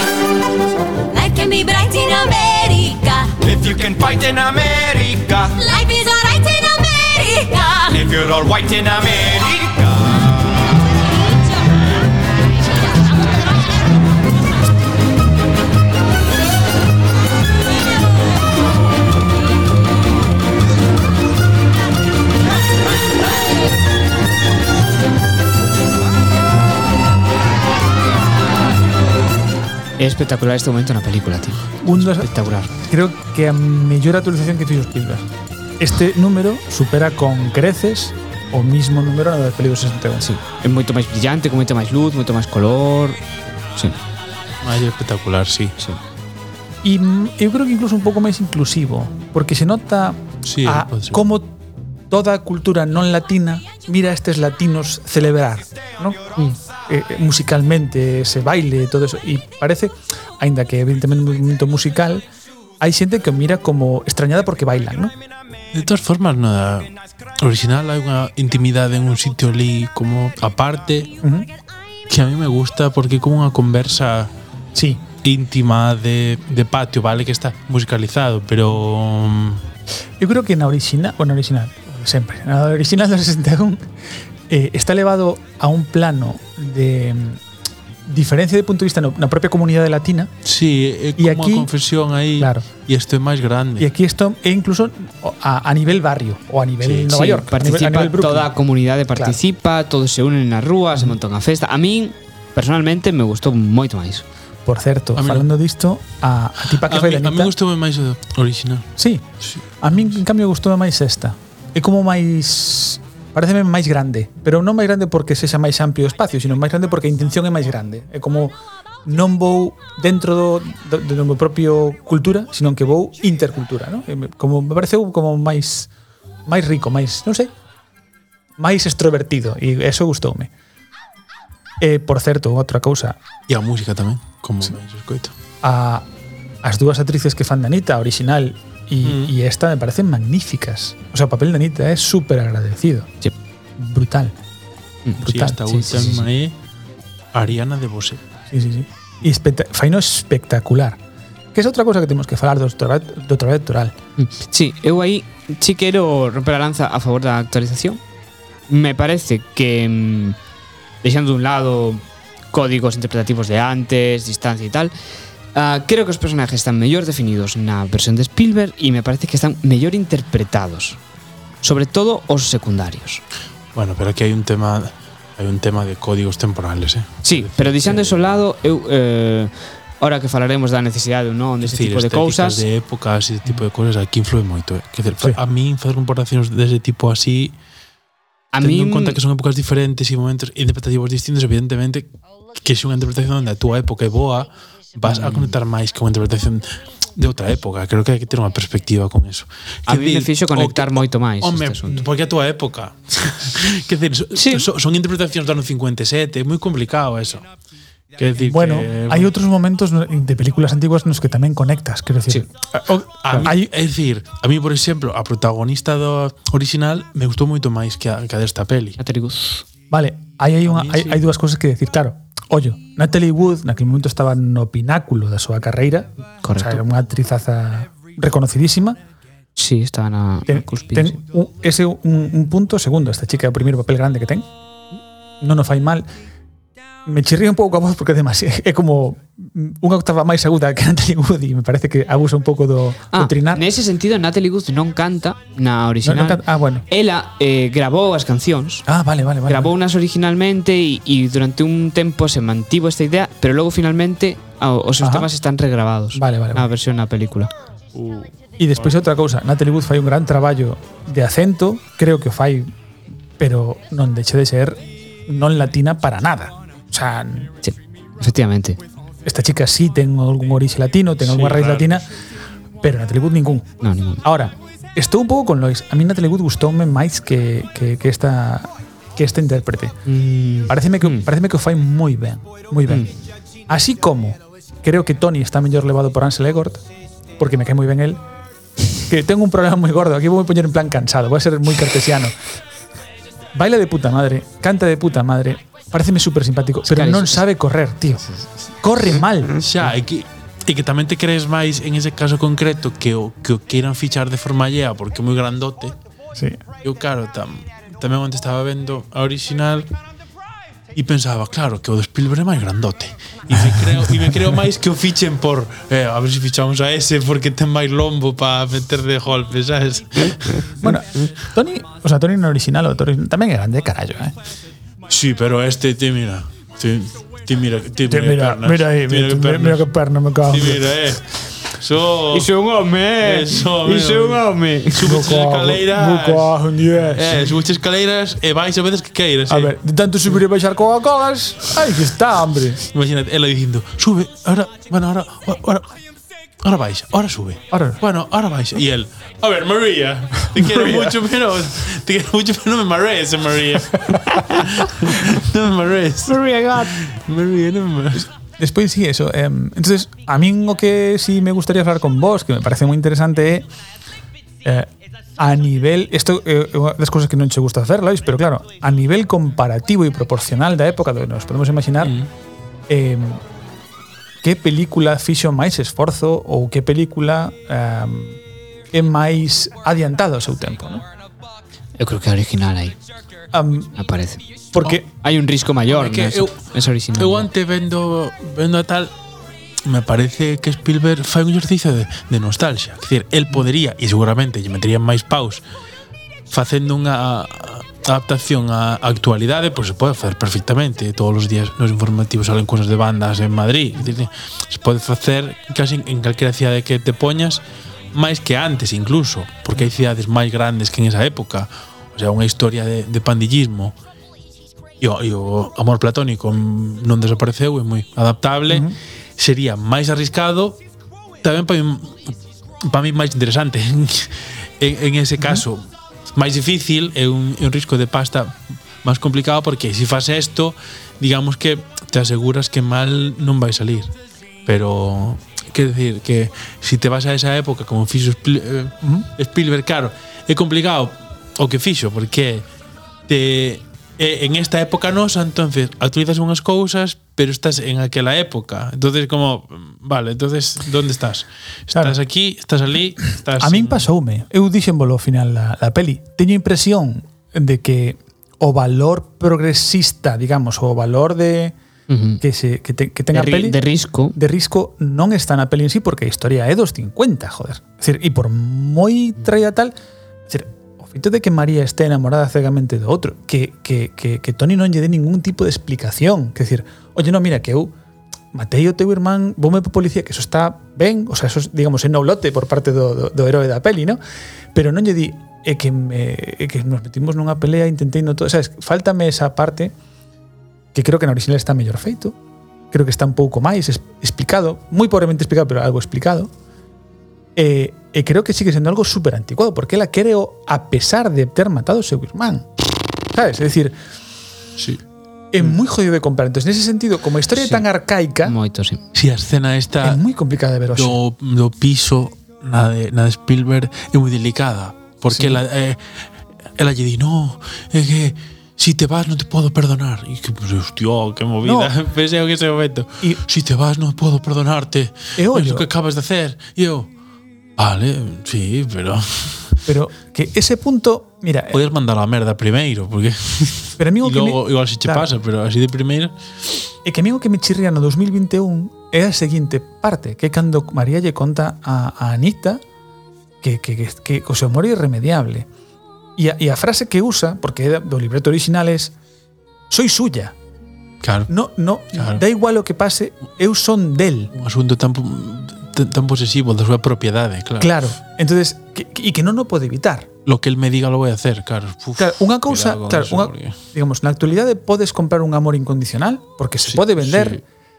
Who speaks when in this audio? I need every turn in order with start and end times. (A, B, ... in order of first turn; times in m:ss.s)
0:01.1-0:03.3 A
0:03.4-0:05.6 B
0:05.6-0:08.0 A
0:07.9-0:10.3 B
0:30.0-0:32.7 C
0:31.8-0:35.3 D
0:35.8-0:40.3 D
0:40.2-0:43.2 C
0:44.6-0:45.7 E
0:46.8-0:51.6 D
0:50.4-0:51.2 E
0:52.1-0:56.2 D
0:56.9-1:02.2 D
1:02.8-1:05.1 D
1:05.7-1:11.1 E
1:11.2-1:11.5 D
1:12.1-1:14.3 E
1:14.7-1:15.0 D
1:15.2-1:19.6 E
1:20.2-1:23.9 D
1:24.5-1:27.4 D
1:28.1-1:30.3 D
1:30.4-1:33.9 E
1:31.2-1:31.7 D
1:32.4-1:32.6 D
1:33.8-1:38.5 D
1:36.8-1:37.1 E
1:37.1-1:44.2 C
1:44.6-1:47.5 D
1:45.2-1:45.5 E
1:46.7-1:48.9 E
1:49.0-1:49.2 D
1:49.8-2:05.9 D
2:06.4-2:07.5 D
2:08.6-2:10.5 D
2:11.8-2:13.2 D
2:13.5-2:15.3 E
2:15.6-2:16.1 D
2:16.6-2:23.1 D
2:19.0-2:19.3 E
2:23.8-2:24.4 D
2:25.0-2:26.2 C
2:25.2-2:26.0 D
2:25.2-2:26.6 E
2:27.3-2:28.2 E
2:28.5-2:31.0 D
2:31.5-2:34.0 D
2:34.2-2:38.0 C
2:38.7-2:40.4 C
2:41.0-2:44.9 C
2:45.5-2:51.0 C
2:51.6-2:53.2 C
2:53.7-2:58.4 E
2:57.2-3:02.6 C
3:01.6-3:07.6 E
3:08.5-3:09.2 C
3:08.6-3:27.4 E
3:15.1-3:15.4 C
3:19.9-3:22.1 C
3:24.3-3:24.7 C
3:28.2-3:29.3 E
3:28.4-3:33.7 D
3:33.2-3:39.0 E
3:39.0-3:39.6 C
3:39.9-3:49.0 D
3:40.6-3:41.2 E
3:46.4-3:46.8 C
3:49.6-3:51.2 C
3:50.5-3:54.4 D
3:55.4-3:56.1 D
3:57.0-4:03.6 D
4:03.1-4:08.9 C
4:06.0-4:06.8 D
4:08.9-4:09.7 D
4:09.5-4:17.5 C
4:15.0-4:15.3 D
4:16.1-4:16.7 D
4:18.0-4:18.2 E
4:18.6-4:22.7 D
4:23.4-4:27.5 D
4:27.6-4:28.8 C
4:29.2-4:32.0 D
4:31.2-4:32.0 E
4:32.8-4:33.7 D
4:33.8-4:34.2 C
4:34.2-4:40.1 D
4:40.1-4:41.2 C
4:40.7-4:43.1 D
4:43.7-4:46.8 D
4:47.4-4:48.2 D
4:49.0-4:52.4 D
4:53.5-4:58.2 D
4:56.9-4:57.4 C
4:58.8-4:59.6 D
4:59.6-5:06.0 E
5:06.8-5:09.9 E
5:10.9-5:20.6 E
5:20.8-5:24.3 D
5:25.0-5:29.9 E
5:28.1-5:31.0 D
5:30.4-5:32.5 E
5:32.3-5:35.1 C
5:33.2-5:39.7 E
5:35.0-5:37.5 D
5:39.5-5:42.8 D
5:42.8-5:45.9 E
5:46.6-5:58.3 E
5:47.7-5:48.0 D
5:50.6-5:51.2 D
5:54.3-5:54.7 C
5:56.3-5:56.9 C
5:58.6-6:03.7 D
6:04.6-6:12.2 D
6:12.0-6:12.3 E
6:12.9-6:13.4 D
6:14.4-6:18.4 D
6:18.9-6:21.0 D
6:22.0-6:23.0 C
6:23.5-6:23.9 D
6:24.0-6:24.4 C
6:24.7-6:25.1 D
6:25.1-6:27.5 C
6:25.9-6:29.1 E
6:29.8-6:35.6 E
6:36.5-6:54.0 E
6:55.0-7:00.8 E
6:58.7-6:59.0 D
7:01.4-7:14.1 E
7:14.6-7:22.6 E
7:19.0-7:19.3 D
7:23.3-7:34.1 E
7:33.6-7:41.8 D
7:42.1-7:42.4 C
7:42.4-7:43.8 D
7:43.3-7:44.4 C
7:44.3-7:49.9 D
7:50.5-7:57.9 D
7:58.5-8:04.2 D
8:04.7-8:09.9 D
8:10.9-8:12.4 D
8:12.9-8:16.5 D
8:17.6-8:22.7 D
8:23.3-8:24.0 D
8:24.8-8:25.0 E
8:25.5-8:28.5 D
8:27.6-8:27.8 C
8:28.4-8:29.0 C
8:29.1-8:30.2 E
8:30.0-8:31.2 D
8:30.9-8:47.1 E
8:35.3-8:35.6 D
8:41.6-8:41.9 D
8:45.4-8:45.9 D
8:47.8-8:49.8 E
8:49.8-8:51.8 D
8:51.7-8:56.4 E
8:54.0-8:55.3 D
8:57.0-9:02.8 D
9:03.6-9:05.7 D
9:06.4-9:09.1 D
9:09.9-9:10.5 D
9:11.2-9:11.5 E
9:11.5-9:14.5 D
9:12.1-9:12.4 E
9:14.5-9:18.0 E
9:17.8-9:20.3 D
9:20.4-9:23.8 E
9:22.2-9:27.6 D
9:26.8-9:27.6 E